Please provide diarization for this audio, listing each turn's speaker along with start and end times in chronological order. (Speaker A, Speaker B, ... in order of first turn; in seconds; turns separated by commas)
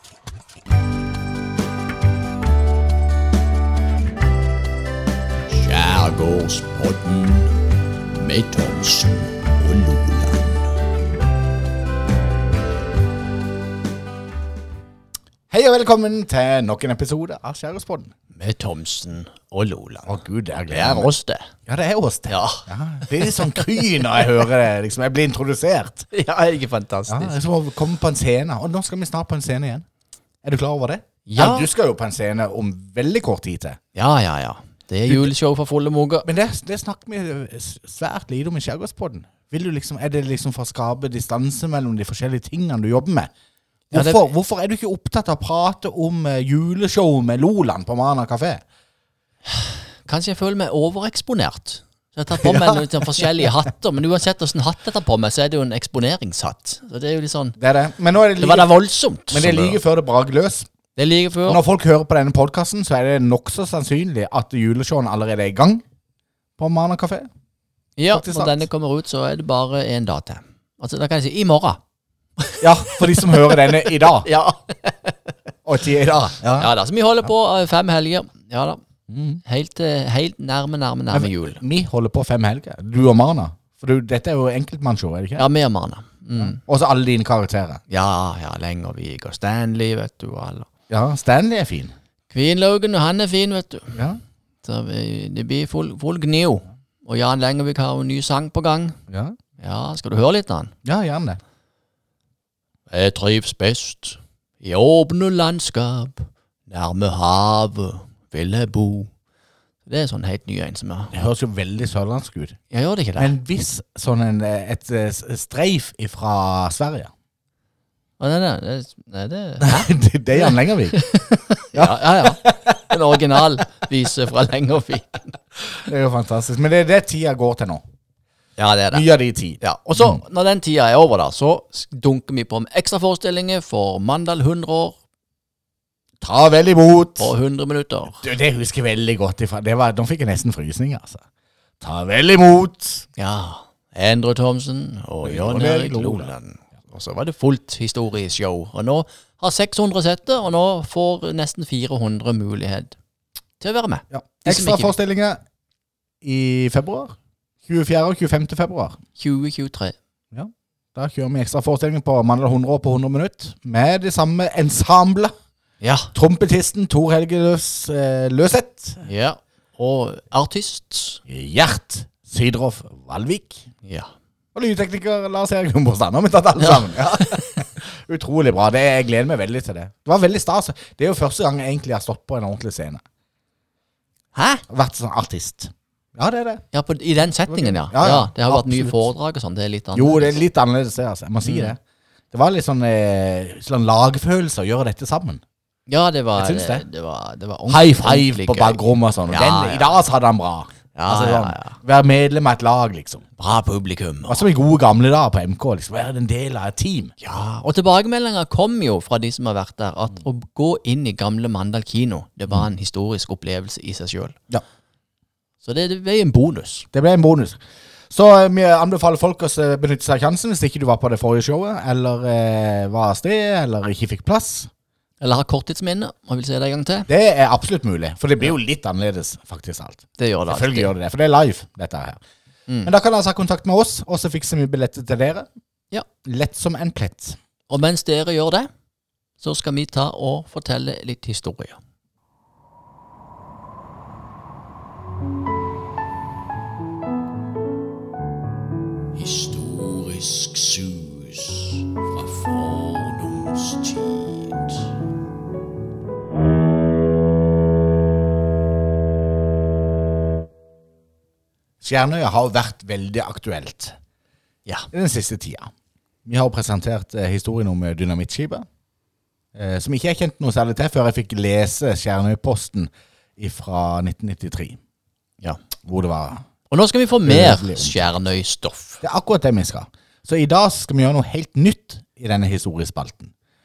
Speaker A: 5.5-7.6, Speaker A: 8.1-10.8, Speaker B: 15.5-18.1, Speaker A: 18.4-20.1, Speaker B: 20.1-21.1, Speaker A: 20.7-21.5, Speaker B: 21.7-26.1, Speaker A: 22.3-22.6, Speaker A: 23.2-23.6, Speaker A: 26.1-27.4, Speaker B: 27.1-29.9, Speaker B: 30.4-33.8, Speaker A: 31.3-31.7, Speaker A: 34.0-36.3, Speaker B: 35.1-35.3, Speaker B: 36.2-43.3, Speaker B: 43.9-48.6, Speaker A: 43.9-44.2, Speaker A: 50.0-57.6, Speaker B: 52.4-53.5, Speaker B: 57.6-58.7, Speaker A: 58.4-59.8, Speaker B: 59.3-60.7, Speaker A: 61.0-61.6, Speaker B: 61.5-65.8, Speaker B: 66.6-67.3, Speaker A: 68.0-71.8, Speaker B: 68.1-68.6, Speaker A: 72.4-75.3, Speaker B: 72.6-74.3, Speaker B: 75.7-76.7, Speaker A: 76.6-78.8, Speaker B: 79.1-79.4, Speaker A: 79.5-81.6, Speaker B: 81.1-85.5, Speaker A: 85.4-86.6, Speaker B: 86.4-87.8, Speaker A: 87.9-90.7, Speaker B: 90.9-91.9, Speaker A: 92.3-94.0, Speaker B: 94.0-94.2, Speaker A: 94.6-99.0, Speaker B: 99.1-99.4, Speaker A: 99.6-100.7, Speaker B: 100.8-101.4, Speaker A: 102.9-109.1, Speaker A: 109.9-111.1, Speaker B: 111.1-112.6, Speaker A: 112.7-113.3, Speaker B: 113.2-117.1, Speaker A: 118.2-125.4, Speaker B: 119.6-121.1, Speaker B: 121.7-123.0, Speaker B: 125.8-127.8, Speaker A: 128.6-129.1, Speaker B: 128.9-130.2, Speaker A: 129.6-134.9, Speaker B: 136.2-137.3, Speaker A: 137.2-138.2, Speaker B: 138.2-141.2, Speaker B: 141.8-143.1, Speaker A: 143.2-152.9, Speaker B: 145.2-146.3, Speaker A: 153.6-154.9, Speaker B: 154.1-155.4, Speaker B: 156.2-159.0, Speaker A: 159.2-159.9, Speaker B: 160.3-165.3, Speaker A: 165.8-166.1, Speaker B: 166.2-169.0, Speaker A: 169.0-171.2, Speaker B: 171.3-173.7, Speaker A: 173.8-174.1, Speaker B: 174.5-183.0, Speaker A: 184.3-184.6, Speaker B: 184.7-186.6, Speaker A: 186.7-190.4, Speaker B: 187.5-189.1, Speaker B: 189.9-191.8, Speaker A: 191.4-191.7, Speaker B: 192.3-195.4, Speaker A: 195.9-200.0, Speaker B: 196.4-196.8, Speaker B: 197.7-203.2, Speaker A: 201.0-201.8, Speaker A: 203.4-204.5, Speaker B: 204.3-207.1, Speaker A: 207.2-214.4, Speaker A: 215.6-216.9, Speaker B: 216.9-224.7, Speaker A: 225.2-227.1, Speaker B: 227.1-232.2, Speaker A: 230.2-230.9, Speaker A: 232.7-232.9, Speaker B: 232.8-235.5, Speaker B: 236.2-237.4, Speaker A: 237.7-238.7, Speaker A: 239.4-241.8, Speaker A: 249.2-254.9, Speaker B: 261.8-264.0, Speaker B: 264.9-265.7, Speaker B: 266.3-268.7, Speaker B: 269.6-274.8, Speaker B: 275.9-276.4, Speaker A: 276.7-279.0, Speaker B: 277.3-278.1, Speaker B: 279.0-283.3